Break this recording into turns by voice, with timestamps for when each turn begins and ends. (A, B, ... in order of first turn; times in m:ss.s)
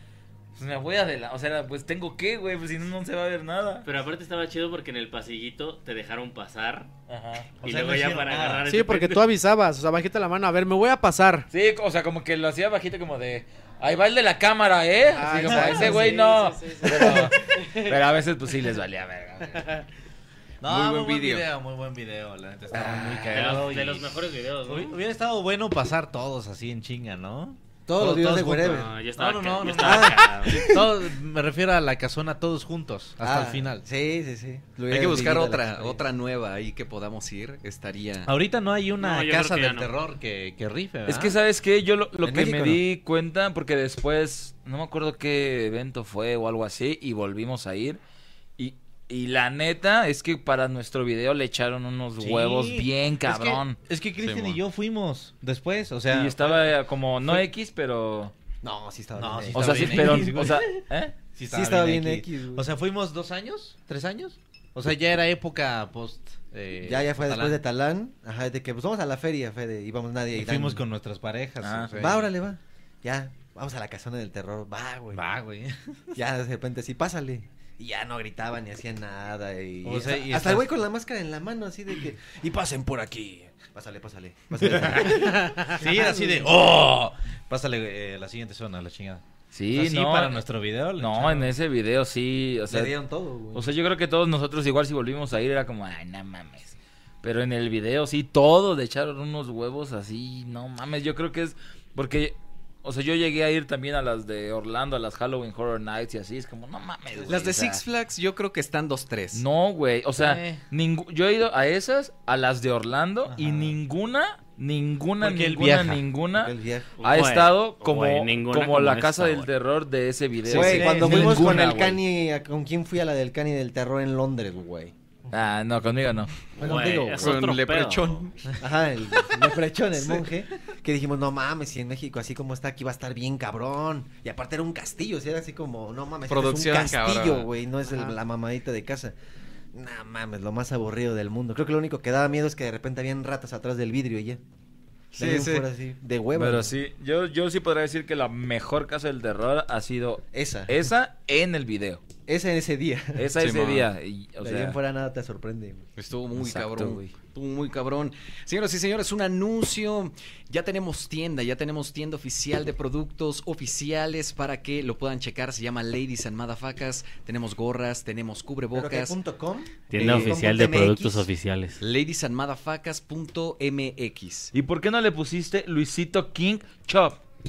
0:00.5-0:03.9 A
0:03.8-0:06.9 B
0:07.1-0:07.5 A
0:07.6-0:09.2 B
0:07.6-0:08.7 C
0:08.6-0:11.5 D
0:11.5-0:19.6 A
0:15.1-0:18.0 D
0:15.5-0:16.0 C
0:20.6-0:33.8 C
0:20.6-0:21.4 E
0:22.7-0:23.4 F
0:23.3-0:24.9 B
0:27.9-0:28.9 F
0:28.6-0:30.6 B
0:29.7-0:30.8 F
0:33.2-0:36.0 F
0:34.9-0:38.3 E
0:38.2-0:41.4 C
0:39.0-0:39.9 B
0:41.1-0:48.0 A
0:42.2-0:42.8 F
0:48.6-0:53.8 A
0:52.2-0:56.6 C
0:54.2-0:54.6 E
0:56.1-0:58.3 A
0:58.6-1:00.5 F
0:59.2-1:00.7 C
0:59.5-1:01.2 A
1:01.3-1:07.6 C
1:01.5-1:02.7 F
1:06.8-1:10.8 F
1:10.3-1:12.3 C
1:11.6-1:12.0 A
1:12.0-1:15.2 F
1:15.1-1:15.9 C
1:16.1-1:26.5 F
1:19.8-1:20.7 C
1:24.6-1:31.5 C
1:29.5-1:30.4 A
1:31.0-1:33.0 A
1:32.7-1:33.7 F
1:33.5-1:47.8 A
1:47.2-1:47.4 F
1:47.3-1:49.4 E
1:49.3-2:02.0 A
1:50.2-1:50.6 C
1:53.2-1:53.8 C
1:55.2-1:56.0 C
1:56.3-1:56.9 F
1:57.0-1:59.5 B
2:00.5-2:04.9 F
2:00.5-2:01.7 C
2:05.3-2:06.3 A
2:06.6-2:08.2 B
2:06.6-2:07.4 F
2:07.2-2:08.3 E
2:08.6-2:19.1 F
2:16.3-2:17.5 E
2:17.9-2:18.1 D
2:19.7-2:24.4 F
2:25.1-2:25.7 E
2:25.2-2:26.8 F
2:26.3-2:32.0 A
2:30.3-2:30.7 F
2:32.2-2:33.3 F
2:33.2-2:34.8 A
2:33.4-2:33.9 E
2:34.4-2:35.9 F
2:36.0-2:49.2 E
2:36.4-2:37.1 A
2:48.7-2:51.3 F
2:49.9-2:51.8 B
2:50.0-2:50.3 E
2:51.8-2:54.5 E
2:54.5-2:57.2 A